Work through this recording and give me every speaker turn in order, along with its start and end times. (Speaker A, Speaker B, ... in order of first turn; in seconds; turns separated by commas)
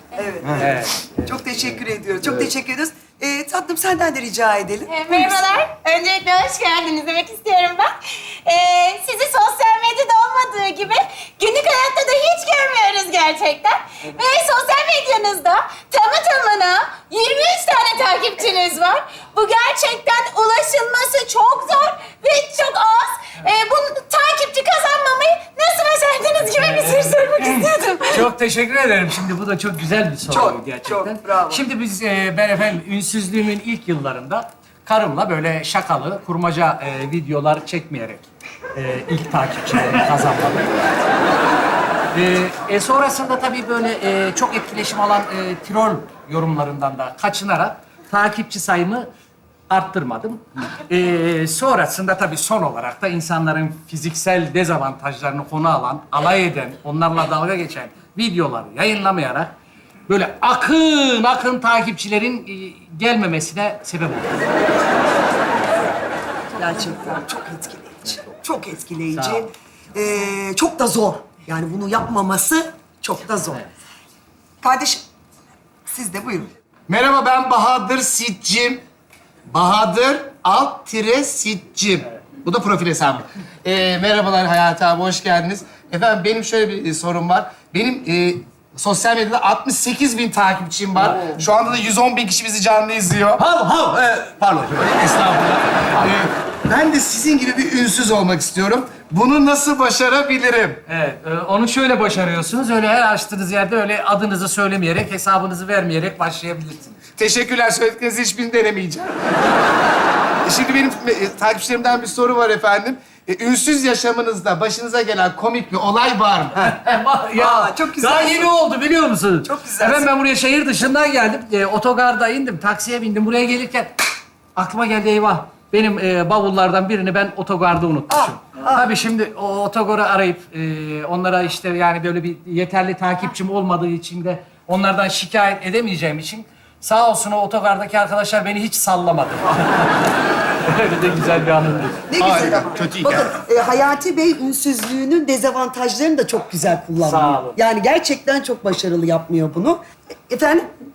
Speaker A: 0.1-5.4, Speaker B: 0.6-1.0, Speaker C: 4.9-28.2, Speaker B: 26.5-40.7, Speaker A: 30.3-31.6, Speaker B: 42.1-49.1, Speaker B: 49.7-59.5, Speaker B: 60.1-64.4, Speaker A: 66.5-73.6, Speaker A: 74.6-75.0, Speaker A: 75.9-76.5, Speaker D: 76.9-78.8, Speaker D: 79.5-93.4, Speaker E: 93.4-95.6, Speaker D: 96.0-100.8, Speaker B: 100.9-107.0, Speaker D: 107.2-109.1, Speaker D: 110.4-116.7, Speaker B: 116.6-123.9, Speaker A: 117.4-118.5, Speaker A: 119.4-120.1, Speaker B: 124.5-140.0, Speaker A: 128.1-128.9, Speaker B: 140.6-142.1, Speaker A: 142.1-150.7, Speaker D: 142.2-143.2, Speaker B: 147.0-147.6